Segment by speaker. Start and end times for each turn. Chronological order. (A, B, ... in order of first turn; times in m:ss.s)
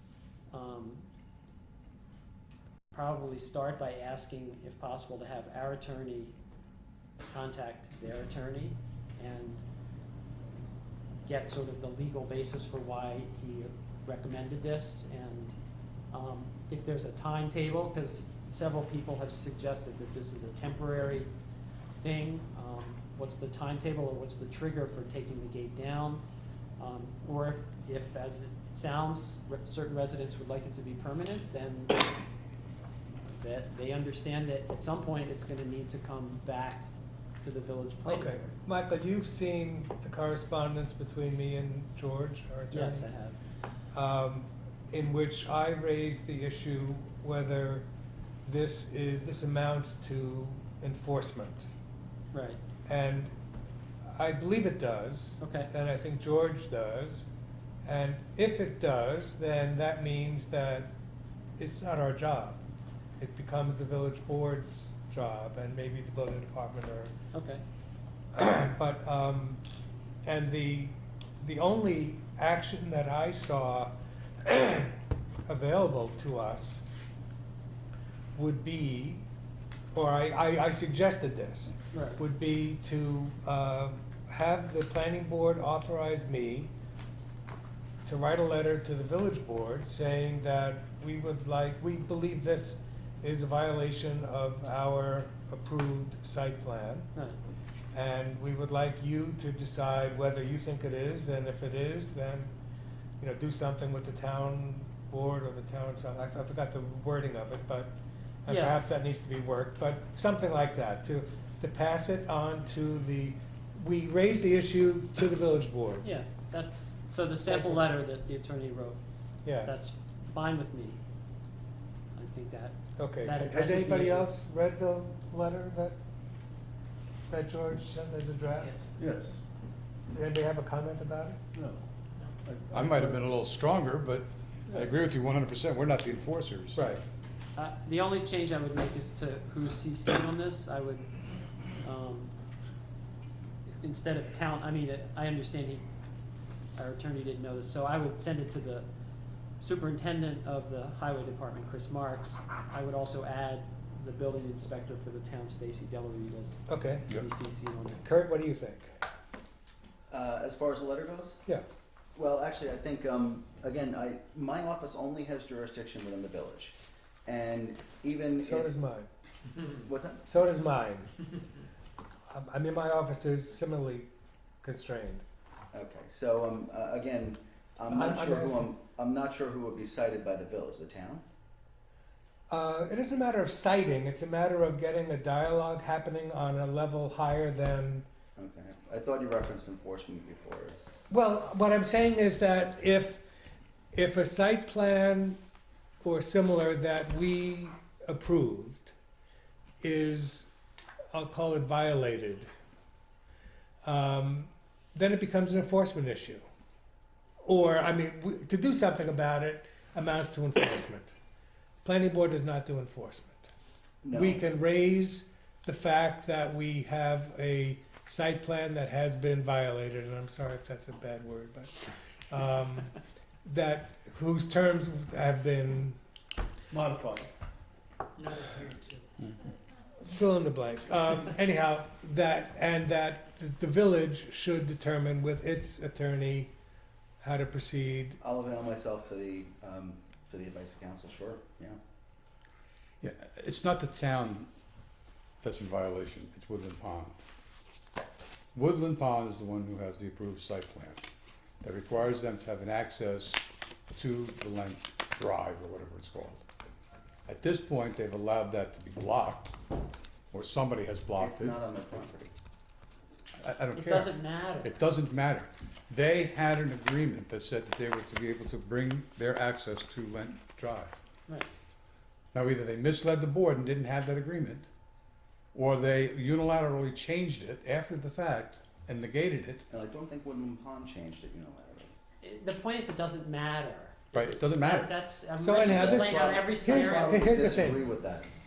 0:00.5-0:01.1 A
0:02.9-0:06.4 A
0:07.3-0:09.6 A
0:11.2-0:15.6 A
0:16.1-0:21.3 A
0:22.0-0:26.2 A
0:26.8-0:32.1 A
0:33.2-0:38.5 A
0:38.0-0:43.1 B
0:42.7-0:43.4 A
0:43.9-0:47.9 B
0:48.4-0:51.7 B
0:52.3-0:52.6 A
0:52.9-0:53.3 B
0:54.1-0:57.3 B
0:55.4-0:55.7 A
0:57.8-1:00.9 B
1:01.6-1:02.6 B
1:03.2-1:07.1 B
1:07.3-1:07.6 A
1:08.3-1:09.6 B
1:10.2-1:13.9 B
1:14.4-1:16.8 B
1:18.4-1:19.3 B
1:19.9-1:26.7 B
1:21.9-1:22.2 A
1:28.0-1:37.1 B
1:37.9-1:42.5 B
1:43.2-1:56.1 B
1:48.5-1:48.8 A
1:56.0-1:59.0 A
1:57.5-1:57.9 B
1:59.4-1:59.8 B
1:59.6-2:01.0 A
2:02.1-2:04.3 A
2:03.0-2:06.0 B
2:07.3-2:08.7 B
2:09.0-2:09.4 C
2:10.1-2:11.4 B
2:11.5-2:11.9 C
2:12.4-2:13.2 C
2:12.7-2:16.9 D
2:14.7-2:15.0 C
2:16.7-2:17.0 B
2:17.6-2:21.1 A
2:21.8-2:22.3 A
2:23.8-2:25.8 A
2:26.8-2:28.9 A
2:29.6-2:38.1 A
2:36.7-2:37.1 B
2:38.0-2:38.9 B
2:40.1-2:41.4 E
2:42.2-2:46.7 E
2:47.3-2:48.7 E
2:48.4-2:49.1 B
2:49.7-2:50.2 E
2:50.2-2:51.2 B
2:52.3-2:54.1 B
2:54.6-2:55.2 B
2:55.7-3:01.2 E
2:57.9-2:58.7 B
3:02.5-3:08.1 B
3:08.4-3:10.9 E
3:11.1-3:13.2 B
3:13.9-3:15.4 B
3:16.0-3:18.9 B
3:19.8-3:20.5 B
3:21.1-3:22.5 B
3:23.8-3:26.4 B
3:27.4-3:31.1 B
3:31.8-3:33.5 B
3:34.0-3:34.4 E
3:34.1-3:46.0 B
3:46.7-3:47.3 C
3:48.4-3:48.9 C
3:50.0-3:56.5 B
3:57.2-3:58.2 B
3:58.2-4:01.8 E
4:03.0-4:04.5 D
4:05.4-4:07.2 D
4:08.6-4:11.0 D
4:11.6-4:16.4 D
4:17.3-4:19.6 D
4:20.3-4:21.6 D
4:21.2-4:22.3 E
4:23.4-4:31.0 D
4:23.7-4:24.8 A
4:32.3-4:34.7 D
4:35.5-4:39.6 D
4:39.7-4:41.9 E
4:42.2-4:47.4 A
4:44.1-4:45.0 D
4:45.4-4:47.8 B
4:45.5-4:48.3 E